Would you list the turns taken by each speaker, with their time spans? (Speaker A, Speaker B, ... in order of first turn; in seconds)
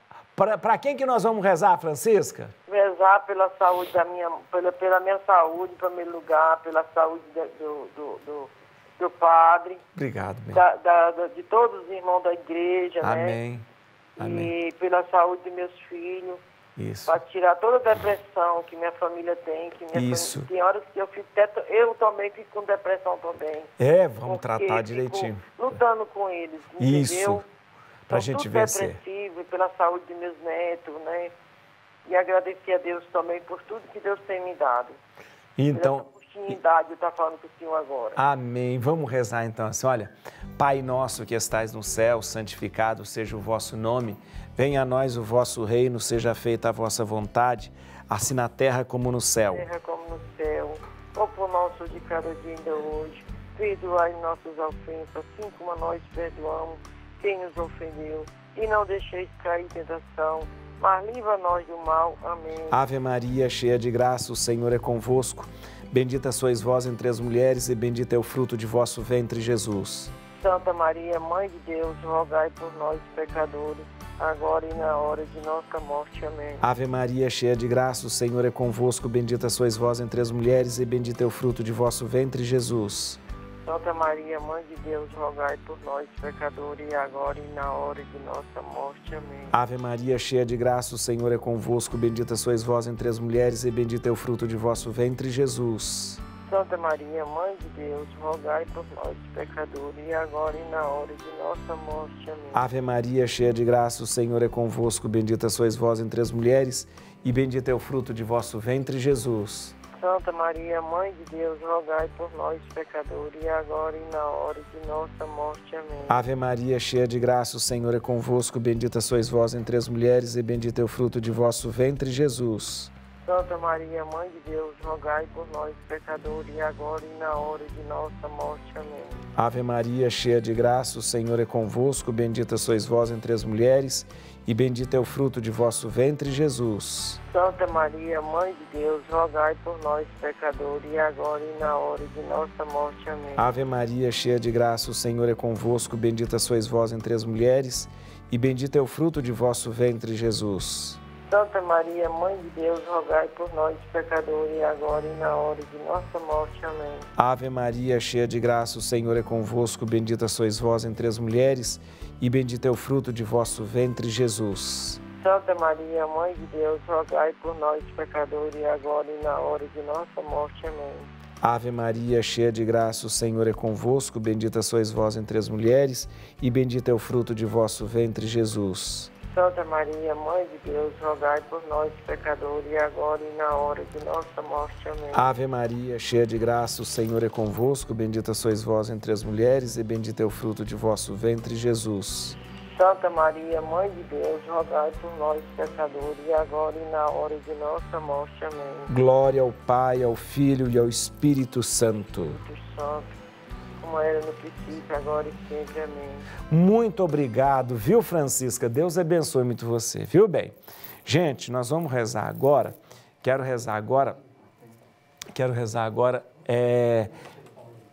Speaker A: 0.4-2.5, 10.0-10.6, 13.0-13.7, 14.2-14.5, 16.8-17.2, 19.9-20.5, 23.8-25.5, 26.8-27.4, 28.1-29.0, 35.6-36.1, 38.2-49.7, 62.7-70.1, 76.6-83.2, 89.5-96.2, 102.5-109.8, 116.1-122.9, 129.4-137.2, 143.4-151.0, 157.2-165.0, 171.4-179.1, 185.1-192.4, 198.9-202.4, 206.4-214.2, 215.3-217.1
Speaker B: 2.7-9.8, 10.5-13.4, 14.2-16.4, 17.1-23.7, 24.3-27.5, 28.1-31.3, 32.1-35.0, 35.7-38.2, 49.5-62.8, 70.4-76.6, 83.7-89.5, 96.5-102.7, 110.0-116.2, 123.2-129.2, 137.3-143.4, 151.3-157.1, 165.2-171.1, 179.3-185.3, 192.7-198.9, 202.4-203.1, 203.8-206.3